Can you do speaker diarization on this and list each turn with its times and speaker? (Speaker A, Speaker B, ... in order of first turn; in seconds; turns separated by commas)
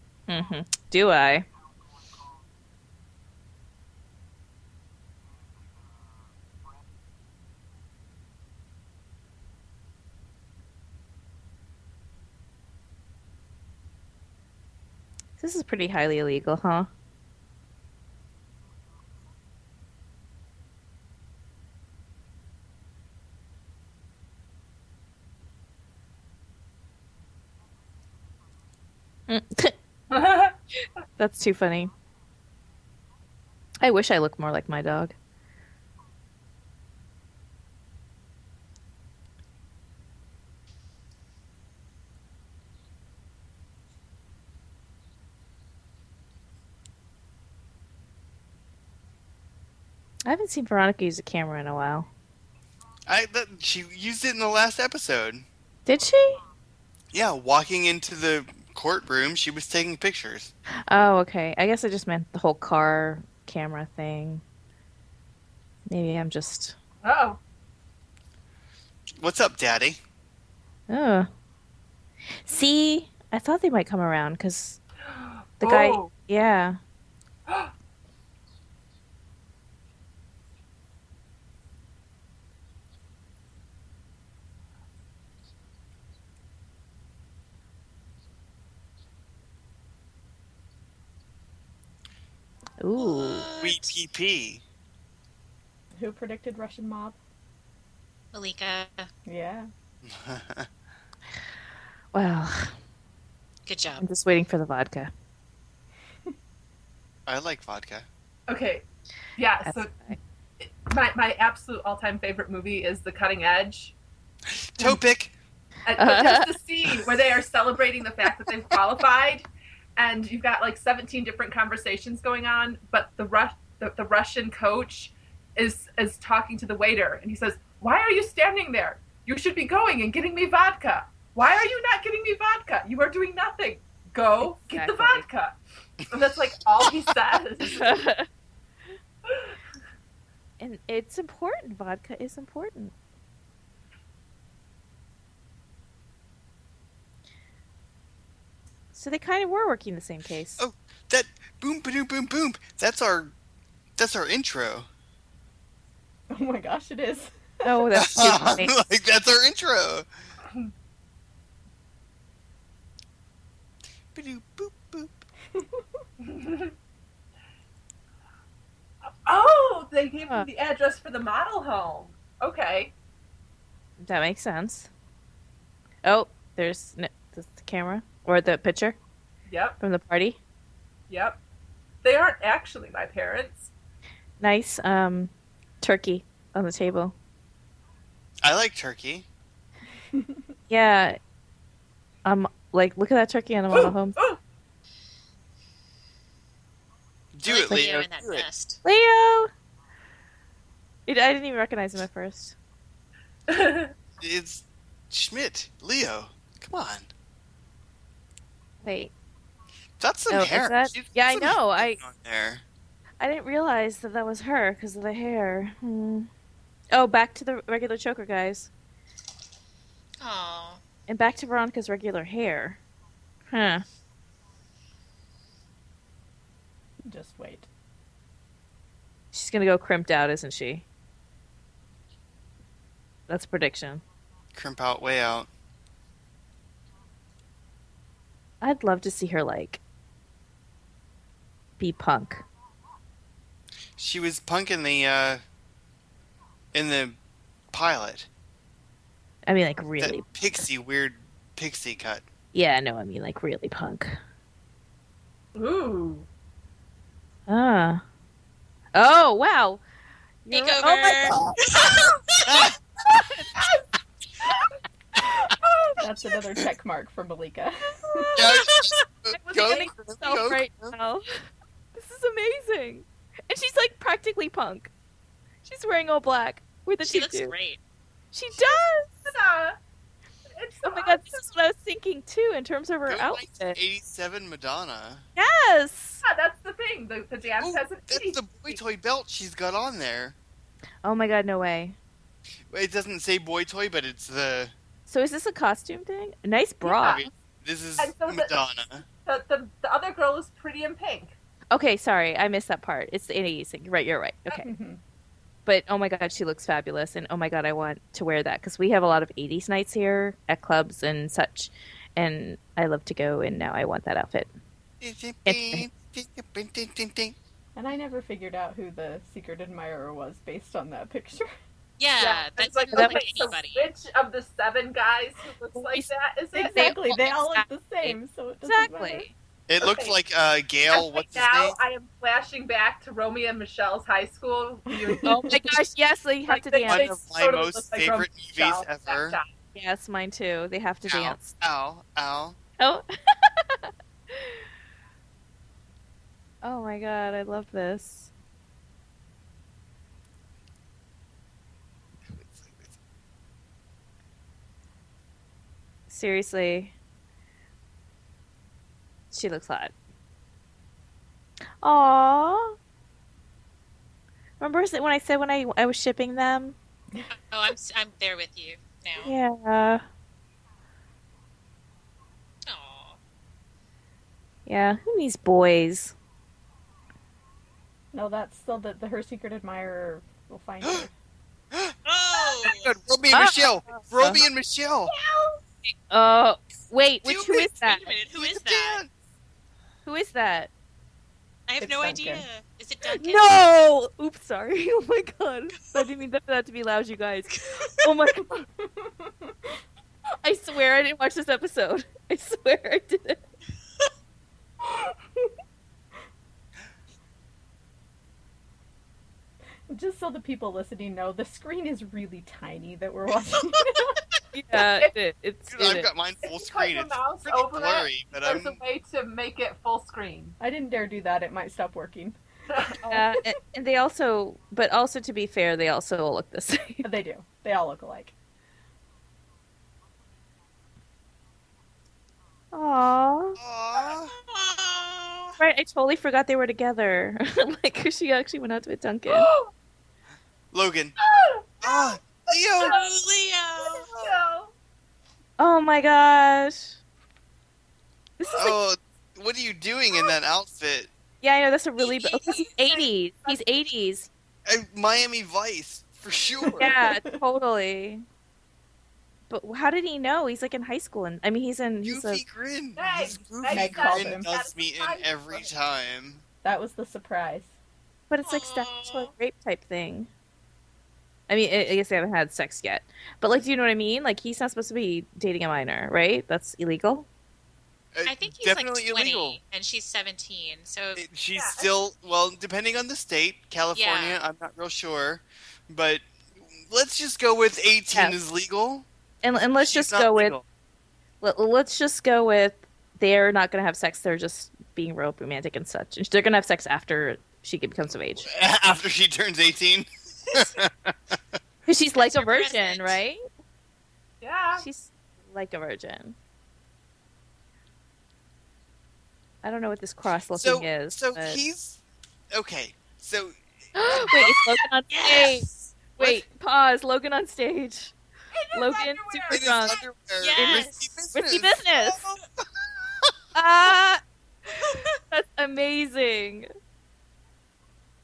Speaker A: 0.3-1.4, Speaker A: 15.4-16.9, Speaker A: 29.3-29.7, Speaker B: 30.1-30.6, Speaker A: 31.2-31.9, Speaker A: 33.8-35.1, Speaker A: 50.2-52.1, Speaker C: 53.1-55.4, Speaker A: 55.9-56.4, Speaker C: 57.1-60.5, Speaker A: 60.9-64.4, Speaker A: 65.9-66.8, Speaker B: 67.0-67.4, Speaker C: 69.2-70.0, Speaker A: 70.9-71.3, Speaker A: 72.4-74.8, Speaker B: 75.1-76.1, Speaker A: 75.6-76.8, Speaker A: 92.8-93.5, Speaker D: 93.0-93.9, Speaker C: 93.6-94.6, Speaker E: 96.0-97.2, Speaker D: 98.3-99.1, Speaker E: 99.2-99.7, Speaker C: 100.0-100.7, Speaker A: 102.1-102.7, Speaker D: 103.7-104.0, Speaker A: 104.0-105.1, Speaker C: 107.3-108.0, Speaker B: 108.5-108.8, Speaker B: 109.3-110.0, Speaker A: 109.6-110.2, Speaker B: 110.6-113.9, Speaker C: 114.5-115.3, Speaker B: 115.8-119.5, Speaker A: 116.0-116.5, Speaker B: 120.0-137.9, Speaker A: 134.4-135.2, Speaker A: 137.6-138.3, Speaker B: 139.3-139.5, Speaker A: 140.6-142.9, Speaker A: 148.9-150.6, Speaker C: 150.6-153.3, Speaker C: 154.0-154.9, Speaker E: 156.3-157.8, Speaker A: 157.6-158.7, Speaker C: 157.9-160.1, Speaker C: 164.1-165.2, Speaker B: 166.2-166.7, Speaker B: 169.2-172.9, Speaker A: 174.0-174.9, Speaker A: 176.0-179.0, Speaker B: 179.5-179.8, Speaker A: 179.8-180.4, Speaker B: 181.1-181.4, Speaker B: 182.0-183.7, Speaker A: 184.4-187.1, Speaker C: 188.4-189.2, Speaker E: 190.1-190.4, Speaker A: 190.7-191.2, Speaker A: 192.2-194.2, Speaker B: 193.7-194.4, Speaker C: 197.3-198.4, Speaker D: 197.4-198.8, Speaker A: 198.8-199.5, Speaker A: 201.1-202.5, Speaker B: 203.5-203.9, Speaker C: 204.2-207.1, Speaker A: 208.8-209.1, Speaker C: 210.0-212.6, Speaker A: 210.3-212.0, Speaker A: 213.2-216.3, Speaker A: 216.9-218.7, Speaker D: 220.2-220.8, Speaker A: 221.1-222.8, Speaker A: 223.5-223.8, Speaker E: 227.1-227.7, Speaker A: 229.3-230.8, Speaker A: 233.3-234.0, Speaker C: 234.5-235.5, Speaker A: 238.6-239.8, Speaker A: 241.8-242.4, Speaker C: 244.0-245.4, Speaker C: 246.7-247.2, Speaker C: 247.7-248.3, Speaker A: 249.5-250.3, Speaker C: 250.0-252.2, Speaker A: 252.5-254.2, Speaker B: 255.5-256.3, Speaker A: 257.5-258.0, Speaker A: 258.9-259.8, Speaker A: 260.4-261.4, Speaker D: 260.5-262.5, Speaker C: 262.5-262.7, Speaker B: 265.6-266.1, Speaker E: 266.0-268.4, Speaker C: 268.4-270.9, Speaker D: 268.7-268.9, Speaker A: 269.3-274.9, Speaker A: 275.6-277.5, Speaker D: 277.0-277.8, Speaker A: 278.3-279.3, Speaker B: 278.5-279.8, Speaker B: 280.5-281.5, Speaker A: 280.8-283.8, Speaker C: 283.1-285.2, Speaker A: 285.4-286.2, Speaker B: 286.2-288.8, Speaker C: 287.6-290.3, Speaker A: 291.0-291.9, Speaker C: 292.7-294.7, Speaker A: 295.1-297.3, Speaker C: 297.0-299.0, Speaker B: 298.0-298.5, Speaker B: 299.2-301.4, Speaker A: 301.7-304.7, Speaker E: 304.6-305.0, Speaker A: 305.6-314.5, Speaker C: 315.0-317.4, Speaker A: 315.4-315.9, Speaker E: 317.8-321.5, Speaker D: 322.0-323.9, Speaker B: 322.2-326.9, Speaker A: 322.9-323.2, Speaker A: 325.7-326.1, Speaker E: 326.5-329.2, Speaker A: 326.6-329.3, Speaker C: 329.7-331.8, Speaker B: 329.8-330.2, Speaker B: 330.9-335.6, Speaker E: 334.9-335.7, Speaker A: 335.2-337.2, Speaker B: 336.5-339.5, Speaker C: 336.9-339.4, Speaker A: 339.7-341.5, Speaker C: 341.1-342.6, Speaker A: 342.8-344.6, Speaker A: 346.6-348.3, Speaker C: 352.2-352.9, Speaker A: 356.1-356.9, Speaker A: 359.3-359.9, Speaker A: 361.8-362.8, Speaker A: 364.6-366.8, Speaker D: 367.5-369.3, Speaker A: 369.2-370.0, Speaker D: 372.6-373.2, Speaker A: 374.6-376.1, Speaker E: 378.1-381.1, Speaker C: 380.8-381.1, Speaker D: 382.0-382.9, Speaker C: 382.6-385.1, Speaker A: 383.3-384.4, Speaker B: 385.1-385.6, Speaker A: 385.8-388.1, Speaker C: 387.2-389.1, Speaker D: 387.8-389.0, Speaker A: 390.0-390.7, Speaker D: 391.7-393.5, Speaker E: 391.8-392.4, Speaker A: 393.1-398.6, Speaker D: 397.5-398.1, Speaker E: 398.8-399.5, Speaker A: 400.4-403.4, Speaker E: 409.9-414.1, Speaker A: 414.5-416.1, Speaker C: 415.7-418.8, Speaker B: 416.4-420.6, Speaker E: 420.6-423.0, Speaker B: 422.7-423.2, Speaker A: 423.1-427.1, Speaker E: 427.0-428.3, Speaker A: 432.7-433.6, Speaker C: 433.6-434.3, Speaker D: 434.5-435.6, Speaker A: 435.6-439.5, Speaker B: 439.3-439.7, Speaker C: 440.7-441.1, Speaker B: 441.2-442.9, Speaker C: 441.8-442.9, Speaker D: 442.8-444.1, Speaker B: 443.8-444.7, Speaker A: 445.6-447.0, Speaker A: 448.4-448.8, Speaker C: 448.5-451.1, Speaker A: 451.4-454.3, Speaker B: 452.2-453.6, Speaker C: 454.6-457.0, Speaker E: 456.8-457.2, Speaker A: 456.8-458.2, Speaker A: 459.5-462.4, Speaker C: 462.0-466.4, Speaker B: 463.0-465.7, Speaker E: 463.7-464.5, Speaker E: 466.6-467.7, Speaker A: 468.3-470.3, Speaker D: 468.4-469.3, Speaker A: 471.5-477.3, Speaker C: 478.1-479.6, Speaker D: 478.2-481.2, Speaker C: 481.1-489.1, Speaker B: 481.5-481.9, Speaker D: 483.9-484.4, Speaker A: 488.1-488.4, Speaker A: 489.4-490.5, Speaker C: 489.8-490.6, Speaker A: 491.4-498.5, Speaker C: 498.5-501.6, Speaker A: 501.9-503.4, Speaker D: 502.1-503.2, Speaker B: 504.4-504.9, Speaker A: 504.8-506.4, Speaker A: 509.6-511.6, Speaker C: 510.5-512.0, Speaker C: 512.5-513.6, Speaker A: 513.9-518.1, Speaker D: 515.1-516.0, Speaker C: 516.2-516.4, Speaker B: 518.5-519.9, Speaker A: 518.7-520.0, Speaker C: 519.5-522.4, Speaker D: 520.4-521.1, Speaker A: 520.6-522.2, Speaker A: 523.5-524.2, Speaker A: 524.7-526.7